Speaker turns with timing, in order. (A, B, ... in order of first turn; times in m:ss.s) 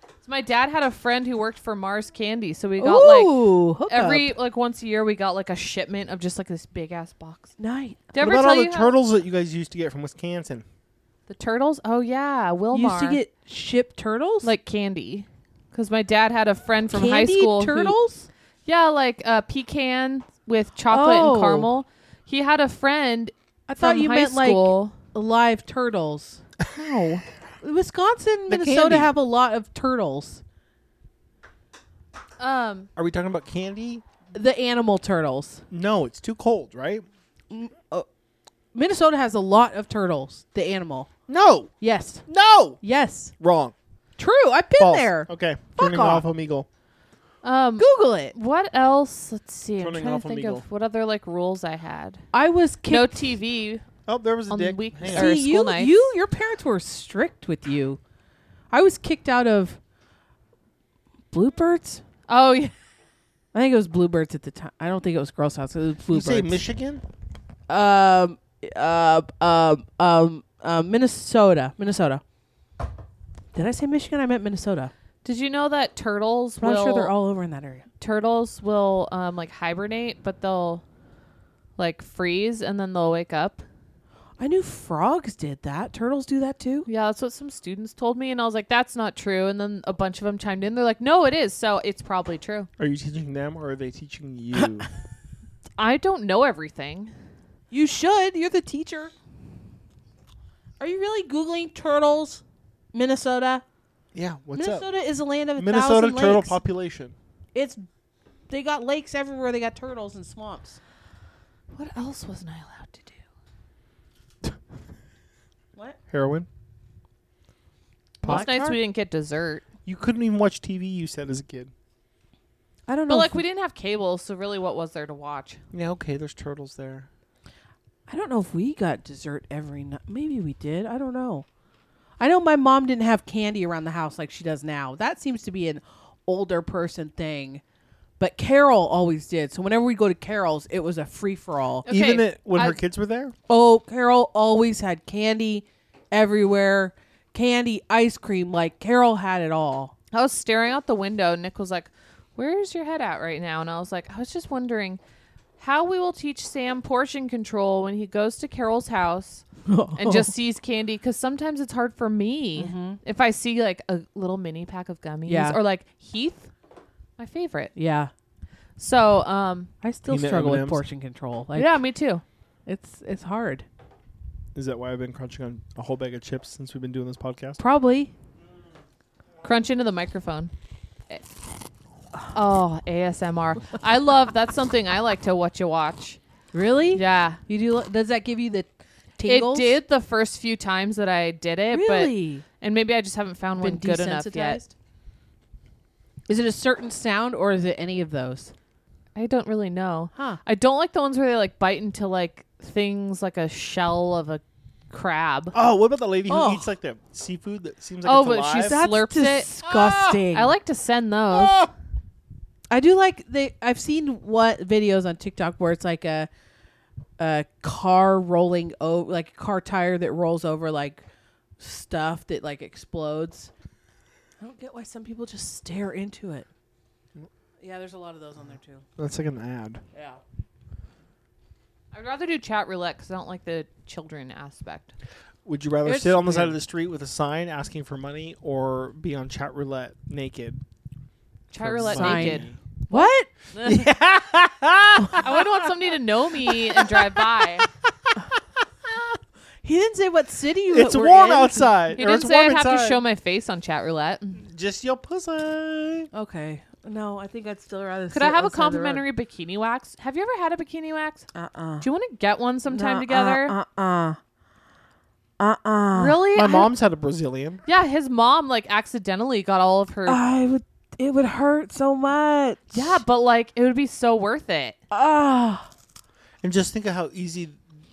0:00.2-0:07.5 A
0:02.8-0:04.3 B
0:07.6-0:08.1 B
0:08.1-0:08.9 A
0:08.2-0:10.6 C
0:11.3-0:13.2 A
0:12.7-0:14.5 B
0:14.4-0:18.0 A
0:16.9-0:18.3 B
0:18.6-0:25.0 A
0:20.9-0:21.7 B
0:23.7-0:26.4 B
0:26.7-0:27.2 A
0:27.6-0:30.4 B
0:28.5-0:29.1 C
0:32.4-0:32.9 A
0:33.0-0:34.0 C
0:34.3-0:35.6 B
0:35.7-0:37.0 C
0:37.5-0:38.1 B
0:38.7-0:41.1 B
0:41.3-0:41.7 C
0:41.8-0:42.2 B
0:42.3-0:42.8 C
0:42.8-0:43.3 B
0:43.4-0:43.7 C
0:44.2-0:46.2 B
0:44.8-0:46.7 C
0:47.4-0:52.2 A
0:47.8-0:48.3 B
0:49.8-0:50.6 C
0:52.3-0:53.2 B
0:52.9-0:53.8 A
0:54.1-0:55.3 C
0:54.5-0:56.1 A
0:55.1-0:58.0 B
0:58.7-0:59.8 B
1:01.3-1:02.0 B
1:02.3-1:02.7 A
1:03.5-1:06.6 B
1:06.1-1:07.0 C
1:07.7-1:12.2 B
1:13.5-1:14.9 B
1:15.2-1:17.1 A
1:16.6-1:17.8 B
1:18.0-1:20.8 A
1:21.8-1:23.6 A
1:24.4-1:26.9 B
1:26.8-1:32.7 A
1:32.8-1:34.9 C
1:35.8-1:37.1 A
1:37.7-1:39.1 B
1:40.8-1:42.4 B
1:42.9-1:43.6 B
1:44.1-1:44.9 C
1:44.5-1:46.6 B
1:45.6-1:47.1 C
1:47.5-1:47.8 B
1:48.5-1:50.8 B
1:51.7-1:53.2 A
1:56.1-1:56.5 C
1:58.2-1:58.4 C
1:58.2-1:58.8 B
1:58.2-1:59.7 A
1:59.8-2:01.7 C
2:02.9-2:03.4 B
2:03.1-2:05.6 A
2:05.7-2:07.1 C
2:08.1-2:11.4 B
2:12.2-2:17.6 B
2:18.2-2:21.8 B
2:21.8-2:22.8 A
2:21.9-2:23.3 C
2:23.5-2:29.9 B
2:30.1-2:35.0 A
2:35.6-2:39.4 A
2:39.7-2:40.3 B
2:40.0-2:46.5 A
2:42.6-2:43.0 B
2:45.2-2:45.6 B
2:47.2-2:47.7 A
2:47.8-2:48.1 B
2:48.8-2:49.7 A
2:49.8-2:51.8 B
2:50.1-2:50.8 C
2:51.5-2:52.2 A
2:52.6-2:53.6 B
2:54.5-2:57.6 C
2:57.6-2:58.1 B
2:59.4-3:00.5 A
3:02.3-3:06.2 A
3:06.5-3:09.7 B
3:06.9-3:07.4 A
3:09.2-3:14.6 A
3:11.7-3:12.4 B
3:13.6-3:14.7 B
3:16.3-3:18.5 B
3:19.1-3:25.5 A
3:20.1-3:20.4 B
3:25.5-3:28.8 C
3:26.3-3:26.7 B
3:28.0-3:29.5 A
3:28.6-3:30.5 B
3:29.6-3:30.2 C
3:30.3-3:31.7 A
3:31.3-3:31.7 C
3:32.7-3:36.3 B
3:37.2-3:41.0 B
3:41.6-3:43.5 B
3:44.4-3:46.5 B
3:47.6-3:48.8 B
3:49.0-3:49.8 C
3:49.9-3:50.2 B
3:51.9-3:54.9 A
3:55.4-4:00.6 C
3:55.8-3:56.6 B
4:01.5-4:02.5 A
4:01.6-4:02.6 C
4:01.8-4:03.3 B
4:03.5-4:03.8 A
4:03.6-4:08.1 C
4:05.2-4:07.7 A
4:08.8-4:09.2 C
4:09.6-4:11.8 B
4:10.7-4:13.0 C
4:11.9-4:14.4 A
4:14.4-4:16.1 C
4:16.1-4:19.0 B
4:18.1-4:21.3 A
4:21.3-4:21.9 B
4:21.8-4:23.5 A
4:22.7-4:24.2 B
4:25.4-4:26.2 B
4:25.9-4:26.7 A
4:26.3-4:27.6 C
4:27.7-4:30.2 A
4:30.0-4:32.7 B
4:32.7-4:34.8 A
4:34.9-4:35.7 B
4:36.4-4:37.6 C